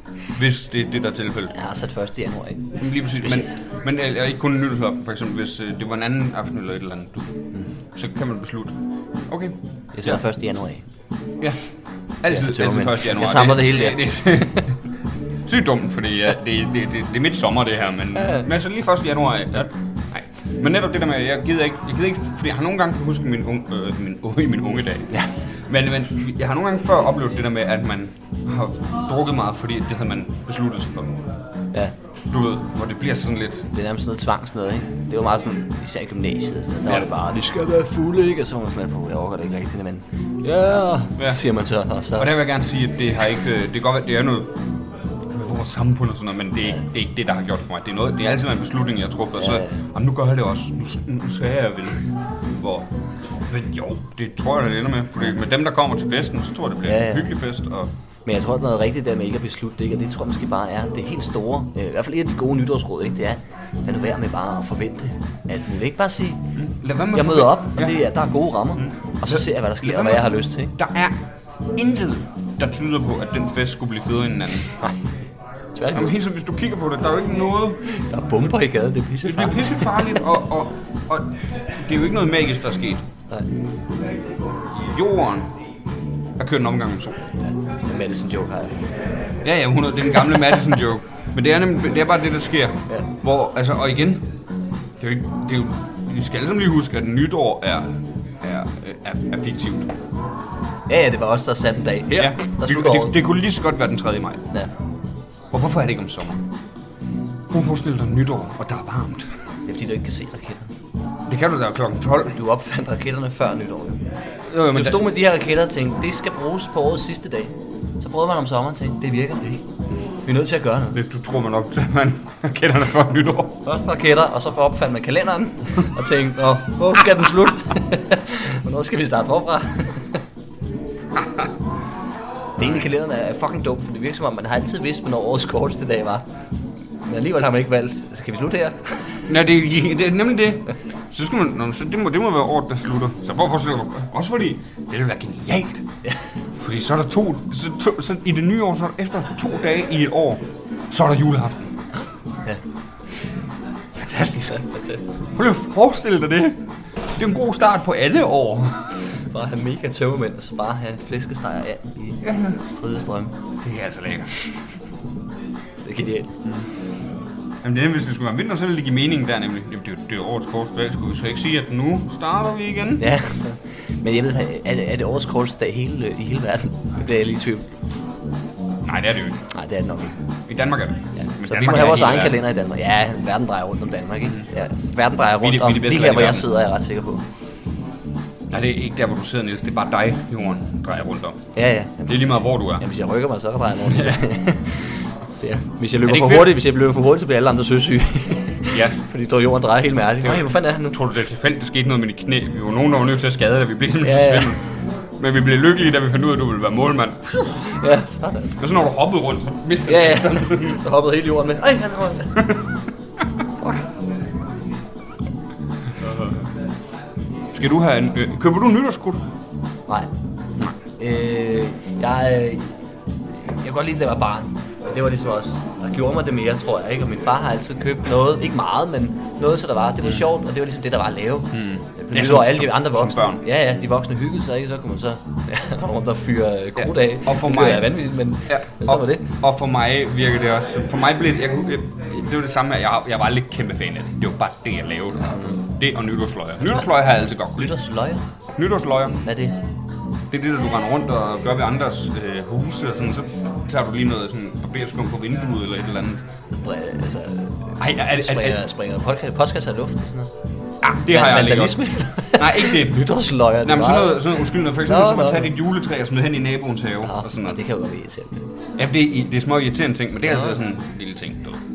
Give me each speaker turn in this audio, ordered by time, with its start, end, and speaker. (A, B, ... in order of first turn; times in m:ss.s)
0:00.4-0:01.6 A
0:01.6-0:02.7 B
0:02.8-0:07.3 A
0:03.2-0:03.5 B
0:08.0-0:08.7 A
0:09.3-0:10.2 A
0:10.0-0:10.8 B
0:12.2-0:14.8 A
0:12.3-0:14.6 B
0:15.5-0:25.1 A
0:18.2-0:18.5 B
0:25.7-0:31.2 A
0:32.3-0:33.7 A
0:33.7-0:42.3 B
0:42.1-0:44.6 A
0:45.3-0:52.9 A
0:49.4-0:49.8 B
0:53.5-0:57.9 A
0:56.9-0:57.3 B
0:58.3-1:06.4 B
1:06.6-1:08.0 A
1:07.1-1:10.7 B
1:08.8-1:11.1 A
1:11.8-1:14.7 A
1:15.8-1:16.2 B
1:16.0-1:17.8 A
1:17.8-1:20.3 B
1:19.3-1:23.0 A
1:24.9-1:25.5 A
1:26.4-1:27.2 A
1:27.4-1:28.8 B
1:29.4-1:34.3 A
1:35.0-1:39.9 A
1:40.9-1:43.1 B
1:42.2-1:44.4 A
1:45.5-1:46.4 A
1:47.5-1:49.3 A
1:49.6-1:50.7 B
1:51.3-1:52.4 A
1:52.4-1:54.0 B
1:54.5-1:55.1 A
1:54.7-1:59.6 B
2:00.3-2:01.0 B
2:00.9-2:03.6 A
2:03.6-2:10.2 B
2:11.2-2:11.5 A
2:12.6-2:16.2 B
2:17.0-2:19.2 B
2:19.3-2:25.8 A
2:26.6-2:31.8 A
2:34.0-2:34.7 A
2:34.5-2:35.1 B
2:35.3-2:36.6 A
2:37.2-2:38.9 A
2:39.3-2:43.3 B
2:42.2-2:42.6 A
2:43.6-2:44.3 A
2:45.8-2:46.4 B
2:47.6-2:53.1 A
2:53.0-2:57.6 B
2:58.9-2:59.4 A
2:59.5-3:00.1 B
3:00.5-3:02.4 A
3:01.2-3:07.2 B
3:05.4-3:06.4 A
3:08.5-3:11.4 A
3:11.6-3:21.0 B
3:12.1-3:12.8 A
3:13.9-3:14.2 A
3:16.0-3:16.5 A
3:18.7-3:19.0 A
3:20.2-3:24.7 A
3:24.0-3:24.6 B
3:25.2-3:27.6 A
3:27.6-3:28.7 B
3:28.6-3:30.8 A
3:29.9-3:32.5 B
3:36.0-3:36.3 A
3:37.5-3:39.2 A
3:41.0-3:42.7 B
3:43.4-3:59.2 B
3:51.5-3:53.4 A
3:56.8-4:07.8 A
4:05.3-4:05.6 B
4:07.6-4:08.2 B
4:08.6-4:09.2 A
4:09.2-4:09.6 B
4:10.3-4:16.2 A
4:16.5-4:20.3 B
4:17.8-4:18.6 A
4:20.8-4:21.8 A
4:21.1-4:25.5 B
4:22.4-4:23.1 A
4:23.6-4:27.6 A
4:27.0-4:28.4 B
4:28.8-4:31.6 A